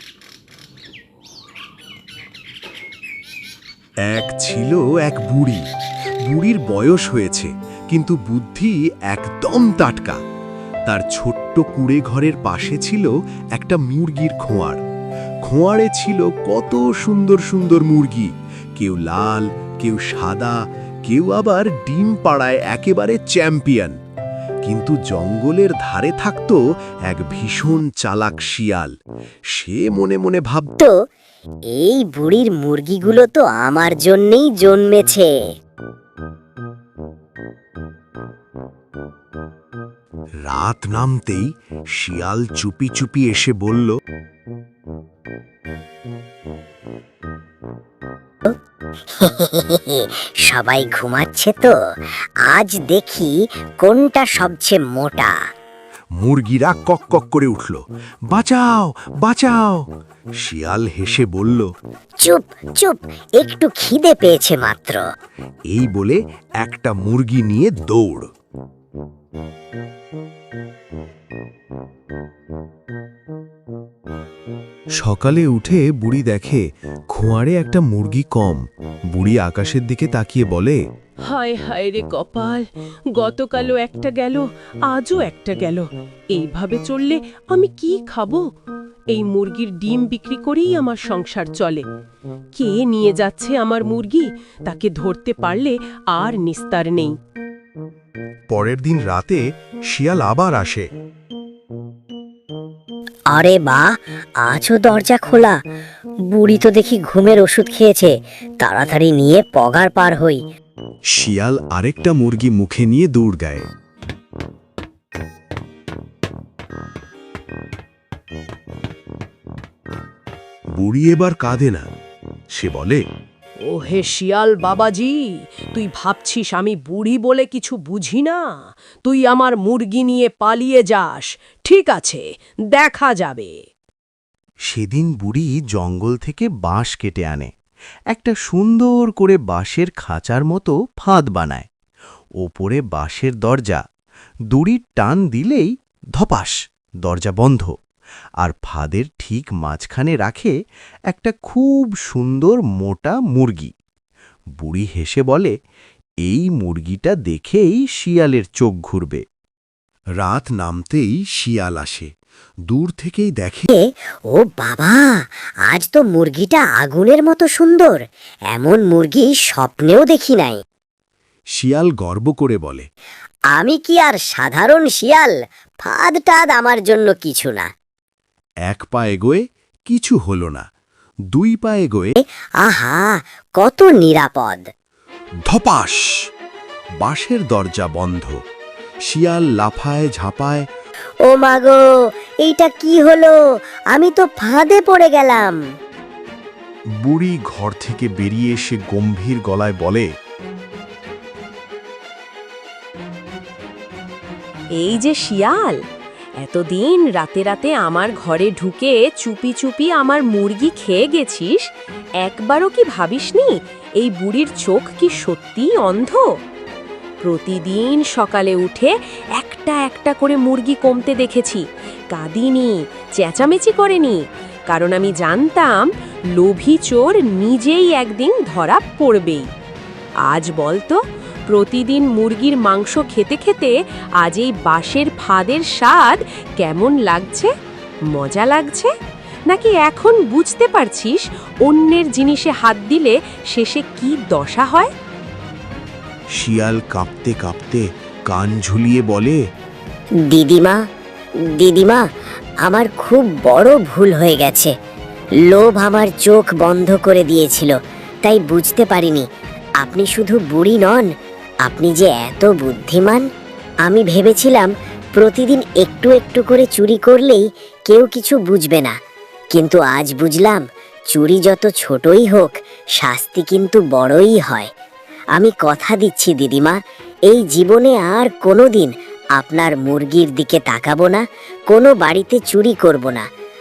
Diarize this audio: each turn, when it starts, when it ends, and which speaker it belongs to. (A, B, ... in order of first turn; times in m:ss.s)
0:04.1-0:05.6 A
0:06.3-0:10.2 A
0:10.9-0:14.8 A
0:15.4-0:20.5 A
0:21.1-0:24.0 A
0:24.6-0:28.9 A
0:29.6-0:30.7 A
0:31.7-0:35.3 B
0:40.5-0:43.9 A
0:49.1-0:51.8 B
0:52.5-0:55.3 B
0:56.2-0:59.8 A
1:00.4-1:01.7 A
1:02.2-1:05.0 B
1:05.7-1:08.3 A
1:15.0-1:20.8 A
1:21.3-1:22.6 C
1:23.2-1:28.4 C
1:29.1-1:31.8 C
1:32.5-1:37.1 C
1:38.5-1:40.9 A
1:43.3-1:45.6 B
1:46.3-1:50.4 B
1:51.1-1:53.7 A
2:00.8-2:01.9 A
2:02.5-2:03.0 A
2:03.6-2:05.2 C
2:05.7-2:08.4 C
2:09.0-2:13.5 C
2:14.7-2:17.5 A
2:18.1-2:21.7 A
2:22.4-2:23.8 A
2:24.5-2:27.7 A
2:28.4-2:30.5 A
2:31.1-2:33.7 A
2:34.6-2:35.5 A
2:36.2-2:39.2 A
2:40.2-2:42.1 A
2:42.7-2:43.7 A
2:43.8-2:48.0 B
2:48.5-2:50.6 B
2:51.6-2:52.9 A
2:53.5-2:57.7 B
2:58.7-3:00.6 A
3:01.3-3:02.1 A
3:02.2-3:04.6 B
3:05.5-3:06.0 A
3:07.0-3:08.3 A
3:09.1-3:10.6 A
3:11.3-3:11.8 B
3:12.4-3:13.4 B
3:13.9-3:15.6 B
3:17.0-3:20.1 A
3:24.8-3:25.8 C
3:26.4-3:31.6 C
3:32.2-3:36.2 C
3:37.2-3:49.5 C
3:50.2-3:57.5 C
3:58.1-3:58.9 C
3:59.5-4:04.9 C
4:06.4-4:09.4 A
4:10.3-4:10.8 B
4:11.6-4:12.0 B
4:12.6-4:14.7 B
4:15.5-4:19.2 B
4:19.8-4:21.1 B
4:21.6-4:23.2 B
4:23.8-4:28.9 B
4:29.5-4:34.7 B
4:35.4-4:36.8 B
4:37.3-4:43.2 B